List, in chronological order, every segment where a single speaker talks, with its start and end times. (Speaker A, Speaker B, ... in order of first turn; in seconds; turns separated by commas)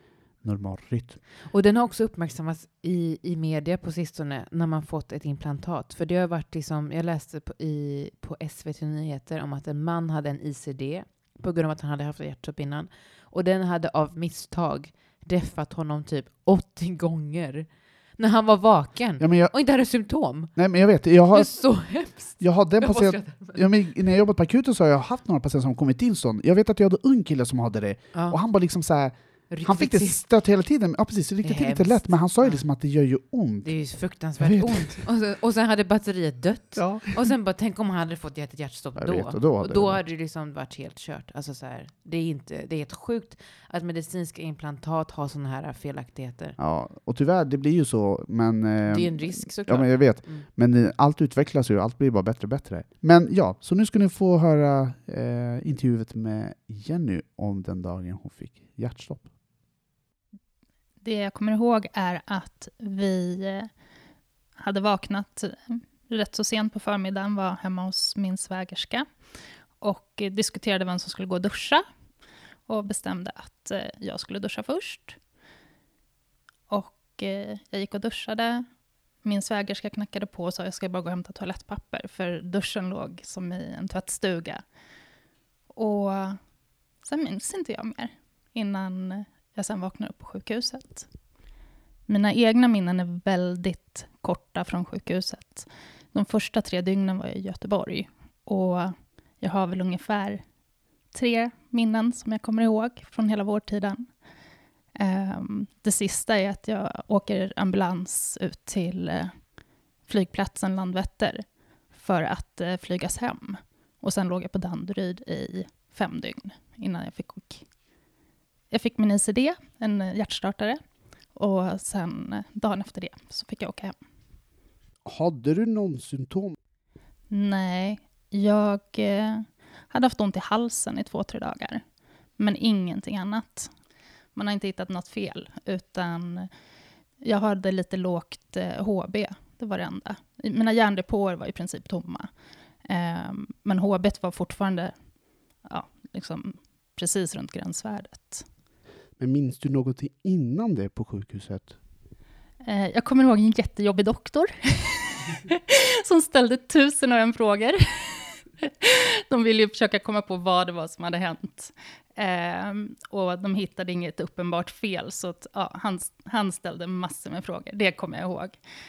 Speaker A: 0.4-1.2, Speaker B: 1.4-20.6, Speaker A: 19.2-19.5, Speaker A: 20.5-21.8, Speaker B: 21.3-23.7, Speaker A: 22.4-33.7, Speaker B: 28.1-28.4, Speaker B: 29.5-30.2, Speaker B: 31.4-32.6, Speaker B: 33.6-46.6, Speaker A: 34.4-35.0, Speaker A: 36.8-37.2, Speaker A: 39.0-40.0, Speaker A: 46.6-59.3, Speaker B: 48.8-50.5, Speaker C: 61.0-63.7, Speaker C: 64.6-69.2, Speaker C: 69.8-71.8, Speaker C: 72.7-75.2, Speaker C: 76.7-78.7, Speaker C: 79.2-84.6, Speaker C: 85.7-86.4, Speaker C: 87.0-91.1, Speaker C: 92.1-100.4, Speaker C: 101.1-104.1, Speaker C: 105.0-109.5, Speaker C: 110.0-117.6, Speaker C: 118.7-120.8, Speaker C: 121.3-123.9, Speaker A: 125.0-126.5, Speaker C: 127.3-131.8, Speaker C: 132.4-133.7, Speaker C: 134.3-136.5, Speaker C: 137.2-142.3, Speaker C: 142.8-144.9, Speaker C: 145.6-148.4, Speaker A: 149.2-151.8, Speaker C: 152.6-168.6